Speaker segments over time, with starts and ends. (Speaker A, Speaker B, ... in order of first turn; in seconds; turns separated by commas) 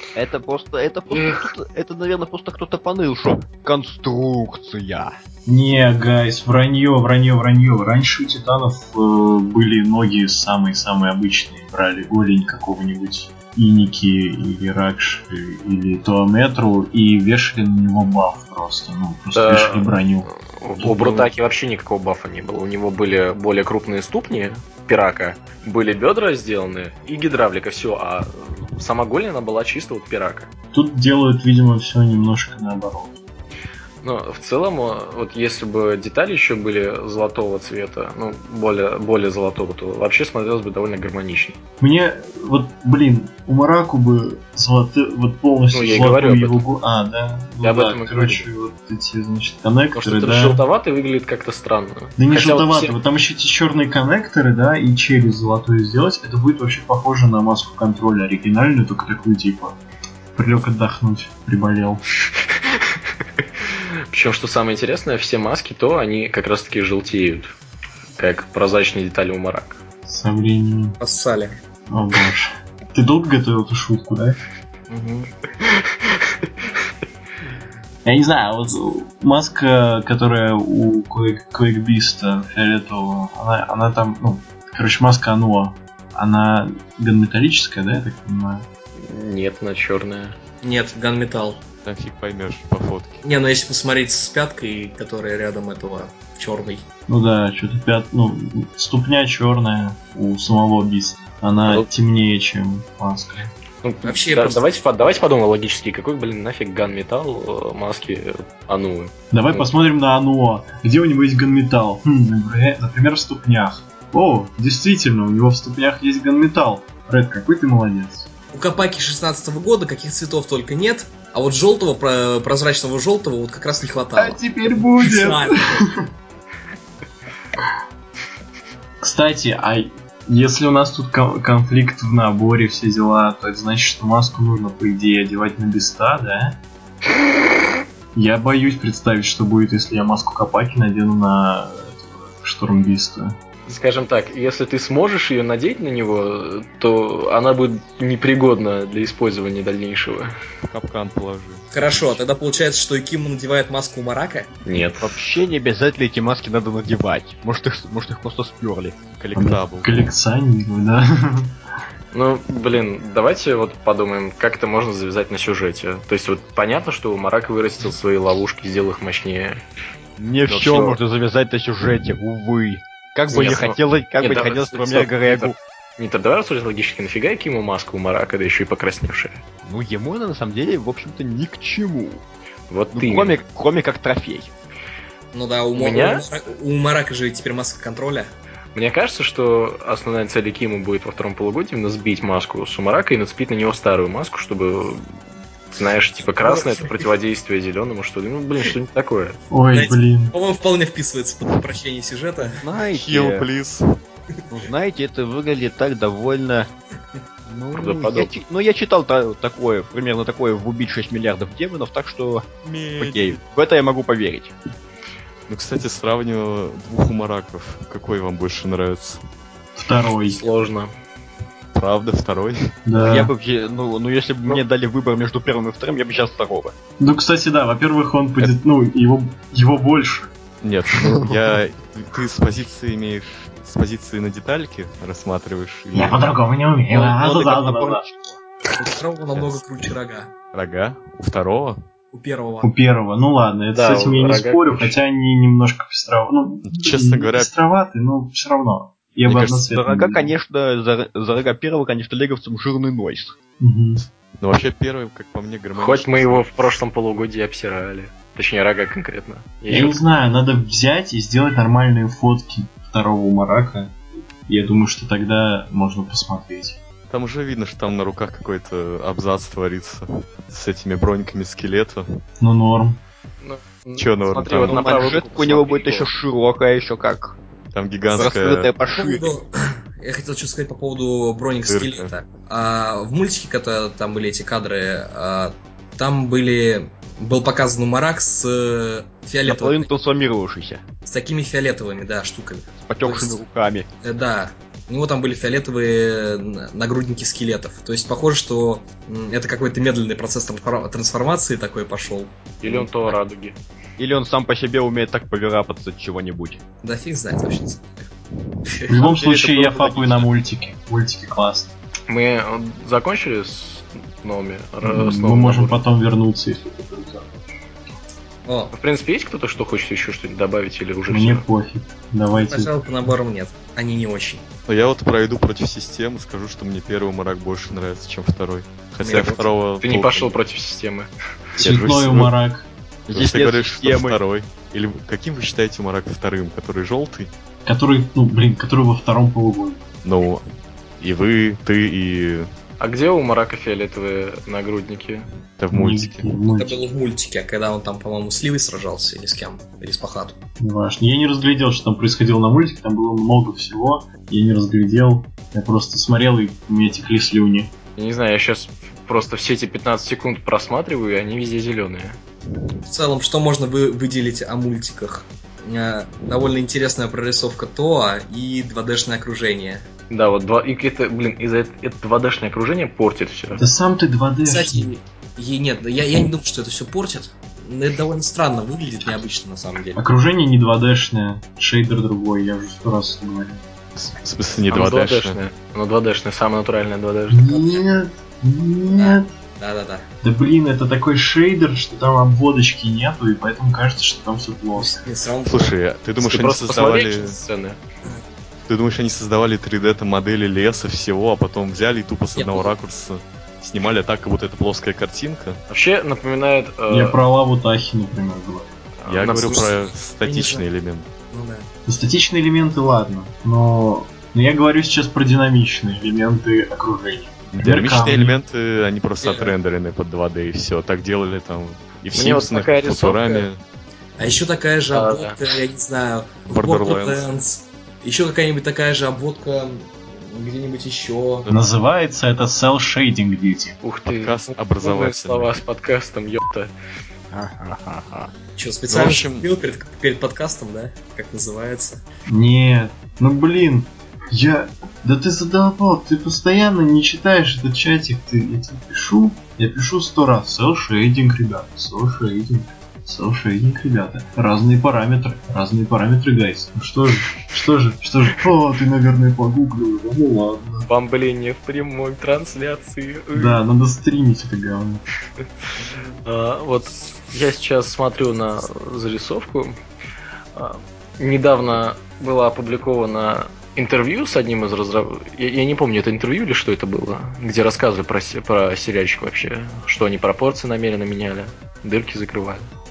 Speaker A: 0.1-5.2, Speaker B: 1.1-1.5, Speaker C: 5.5-21.3, Speaker B: 19.3-19.9, Speaker B: 20.5-30.5, Speaker C: 30.7-33.2, Speaker B: 34.0-41.6, Speaker C: 41.8-50.6, Speaker B: 45.7-46.6, Speaker B: 47.6-48.5, Speaker B: 50.0-52.9, Speaker C: 52.2-59.8, Speaker C: 60.3-62.0, Speaker B: 63.6-67.5, Speaker B: 68.2-69.8, Speaker C: 70.0-71.0, Speaker D: 71.0-71.6, Speaker C: 71.9-74.4, Speaker D: 74.9-75.2, Speaker B: 75.6-76.1, Speaker C: 78.0-88.7, Speaker B: 89.0-90.3, Speaker D: 90.6-91.6, Speaker E: 91.8-93.2, Speaker D: 93.2-96.8, Speaker C: 97.1-103.5, Speaker B: 103.8-109.7, Speaker D: 104.0-104.7, Speaker C: 109.3-118.3, Speaker D: 118.5-125.5, Speaker C: 124.2-126.1, Speaker C: 129.0-136.6, Speaker C: 138.1-143.4, Speaker B: 143.7-150.3, Speaker E: 150.6-152.2, Speaker D: 151.7-154.5, Speaker B: 154.7-155.1, Speaker A: 155.0-159.0, Speaker E: 159.2-159.9, Speaker C: 159.3-161.5, Speaker B: 162.1-169.6, Speaker A: 170.2-175.6, Speaker B: 170.5-171.0, Speaker B: 173.3-179.4, Speaker A: 179.6-182.2, Speaker B: 182.7-183.4, Speaker A: 182.9-184.5, Speaker D: 185.3-188.3, Speaker B: 185.8-186.2, Speaker B: 188.7-195.1, Speaker B: 195.7-199.4, Speaker D: 196.4-197.0, Speaker C: 199.5-200.3, Speaker D: 199.7-202.6, Speaker A: 202.6-203.4, Speaker E: 202.9-203.8, Speaker A: 204.5-206.7, Speaker A: 207.4-214.5, Speaker B: 207.8-208.3, Speaker E: 212.6-213.4, Speaker E: 215.5-219.2, Speaker C: 219.7-220.4, Speaker B: 220.2-220.9, Speaker E: 221.7-222.6, Speaker C: 222.8-223.3, Speaker A: 223.0-226.7, Speaker C: 227.0-230.3, Speaker E: 230.6-236.3, Speaker A: 231.1-231.4, Speaker C: 235.9-238.0, Speaker A: 236.9-238.4, Speaker D: 238.8-240.3, Speaker E: 239.3-239.6, Speaker E: 240.5-241.8, Speaker D: 242.1-242.7, Speaker C: 242.6-250.3, Speaker B: 243.7-245.0, Speaker E: 246.6-247.5, Speaker E: 249.2-249.7, Speaker A: 249.7-253.3, Speaker C: 253.6-254.0, Speaker E: 254.4-256.7, Speaker B: 255.7-260.0, Speaker C: 259.7-266.8, Speaker E: 267.1-272.0, Speaker C: 272.4-273.0, Speaker B: 273.4-276.1, Speaker E: 273.9-275.1, Speaker A: 274.6-277.4, Speaker E: 277.7-278.7, Speaker A: 278.1-279.3, Speaker D: 278.9-289.9, Speaker E: 281.7-282.1, Speaker A: 289.4-290.8, Speaker D: 291.0-293.4, Speaker A: 292.8-293.9, Speaker D: 294.0-302.9, Speaker B: 302.6-303.6, Speaker A: 304.0-306.6, Speaker D: 306.8-308.1, Speaker C: 308.9-311.7, Speaker A: 308.9-310.3, Speaker B: 312.1-315.8, Speaker C: 314.8-317.7, Speaker D: 318.4-318.7, Speaker B: 318.7-321.4, Speaker C: 321.1-322.7, Speaker D: 322.4-324.4, Speaker E: 324.7-330.3, Speaker D: 329.0-329.5, Speaker B: 329.8-331.1, Speaker E: 331.6-332.3, Speaker C: 331.6-332.7, Speaker A: 333.1-334.2, Speaker E: 333.1-337.3, Speaker C: 337.6-339.8, Speaker E: 340.0-340.4, Speaker E: 341.0-342.5, Speaker B: 342.8-345.2, Speaker E: 345.6-346.4, Speaker C: 345.7-346.9, Speaker D: 346.5-350.4, Speaker C: 350.6-357.7, Speaker B: 358.0-362.2, Speaker D: 362.8-369.9, Speaker B: 370.1-373.6, Speaker C: 373.6-374.9, Speaker D: 374.4-380.0, Speaker C: 379.9-383.6, Speaker E: 383.9-385.4, Speaker B: 384.7-387.7, Speaker C: 387.3-389.3, Speaker D: 388.9-390.1, Speaker C: 390.2-395.1, Speaker D: 394.8-395.7, Speaker E: 395.4-397.4, Speaker B: 396.2-397.8, Speaker E: 398.6-405.6, Speaker D: 402.4-402.7, Speaker B: 405.7-407.1, Speaker C: 406.9-408.8, Speaker B: 409.0-409.7, Speaker E: 409.1-411.1, Speaker D: 409.2-410.6, Speaker D: 411.3-411.7, Speaker C: 411.9-418.4, Speaker E: 417.5-423.6, Speaker D: 419.2-419.6, Speaker B: 422.1-423.5, Speaker D: 424.2-431.5, Speaker B: 424.9-425.4, Speaker E: 426.5-427.3, Speaker C: 431.5-433.8, Speaker B: 433.8-436.7, Speaker E: 434.0-435.6, Speaker A: 437.3-438.3, Speaker D: 438.6-442.0, Speaker E: 438.9-439.5, Speaker C: 442.3-460.9, Speaker B: 460.9-463.6, Speaker C: 463.3-465.0, Speaker B: 466.2-469.8, Speaker B: 470.5-482.7